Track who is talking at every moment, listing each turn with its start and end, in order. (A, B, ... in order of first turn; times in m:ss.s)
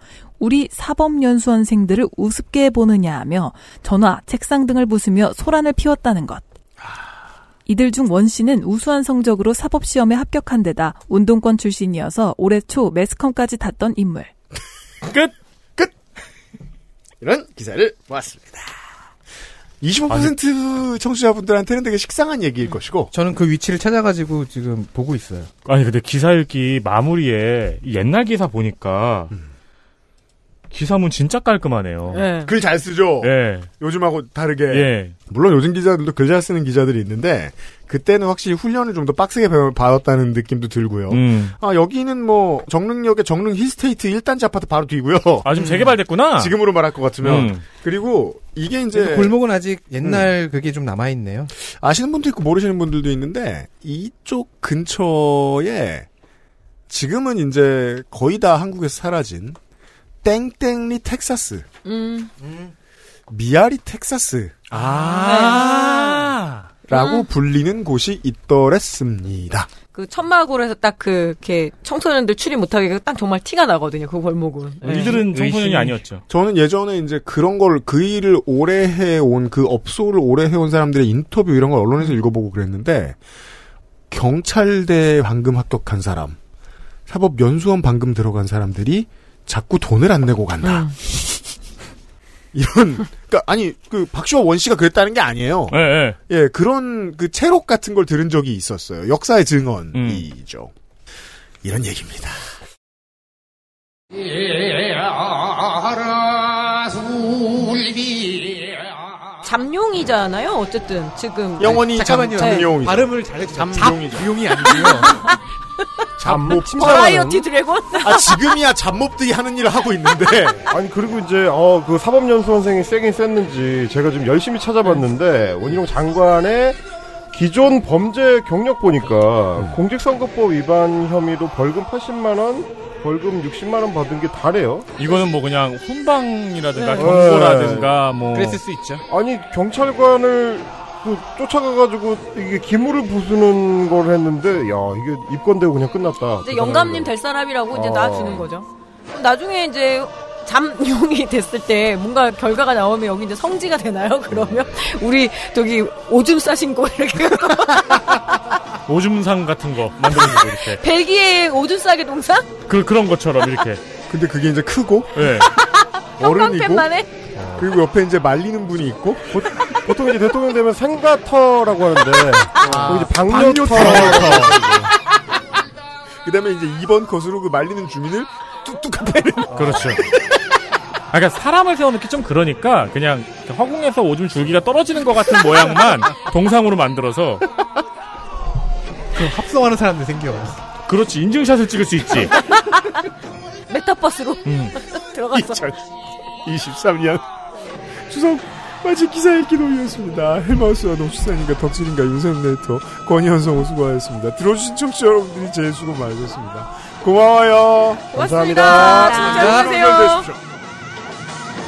0:00.4-0:06.4 A
0:07.6-0:14.3 A
0:17.2-0:18.7 B
0:19.8-0:23.1 B
0:23.1-0:25.5 C
0:25.6-0:29.3 D
0:30.7-0:32.3 D
0:32.1-0:32.5 E
0:32.4-0:45.7 B
0:33.2-0:33.7 D
0:34.7-0:35.1 D
0:41.1-0:41.5 D
0:45.4-0:46.5 D
0:45.5-0:45.9 C
0:46.4-0:49.3 B
0:47.2-0:47.6 D
0:48.9-0:51.5 C
0:50.0-0:50.3 B
0:51.6-0:56.1 B
0:56.9-0:59.6 B
1:00.2-1:01.6 B
1:01.8-1:02.3 E
1:02.4-1:02.7 C
1:03.3-1:04.8 B
1:04.7-1:06.7 D
1:05.1-1:06.3 E
1:06.9-1:09.7 B
1:06.9-1:07.3 E
1:09.9-1:15.2 E
1:14.8-1:16.0 C
1:14.8-1:16.2 D
1:16.3-1:23.2 B
1:24.1-1:26.4 B
1:27.1-1:30.9 B
1:30.6-1:30.9 E
1:32.5-1:40.7 B
1:35.7-1:36.2 D
1:39.9-1:40.2 D
1:41.6-1:42.4 B
1:49.4-1:51.8 E
1:51.6-1:54.3 B
1:51.7-1:55.3 C
1:52.4-1:52.7 E
1:54.6-1:55.4 E
1:56.2-1:57.0 B
1:56.2-1:57.5 F
1:56.7-1:58.4 E
1:58.0-2:00.6 B
2:00.7-2:06.8 F
2:07.3-2:14.9 F
2:15.0-2:18.6 D
2:16.7-2:17.2 E
2:17.0-2:18.0 F
2:18.3-2:19.0 C
2:19.1-2:27.1 F
2:26.4-2:38.0 E
2:27.7-2:28.5 F
2:38.9-2:40.8 D
2:40.8-2:42.5 E
2:42.7-2:43.8 D
2:44.1-2:45.5 B
2:45.2-2:45.5 D
2:45.6-2:47.1 E
2:46.2-2:46.9 B
2:47.4-2:47.6 F
2:47.6-2:49.4 B
2:49.3-2:54.9 F
2:52.7-2:54.6 D
2:52.7-2:54.6 B
2:56.2-3:00.4 B
2:59.5-2:59.9 F
2:59.6-3:00.0 D
3:01.1-3:07.4 D
3:09.1-3:10.6 C
3:10.8-3:12.3 D
3:12.4-3:12.8 E
3:13.7-3:15.6 E
3:14.4-3:14.8 D
3:15.3-3:15.8 B
3:16.4-3:17.2 B
3:18.0-3:30.4 B
3:28.1-3:29.5 F
3:28.1-3:30.2 E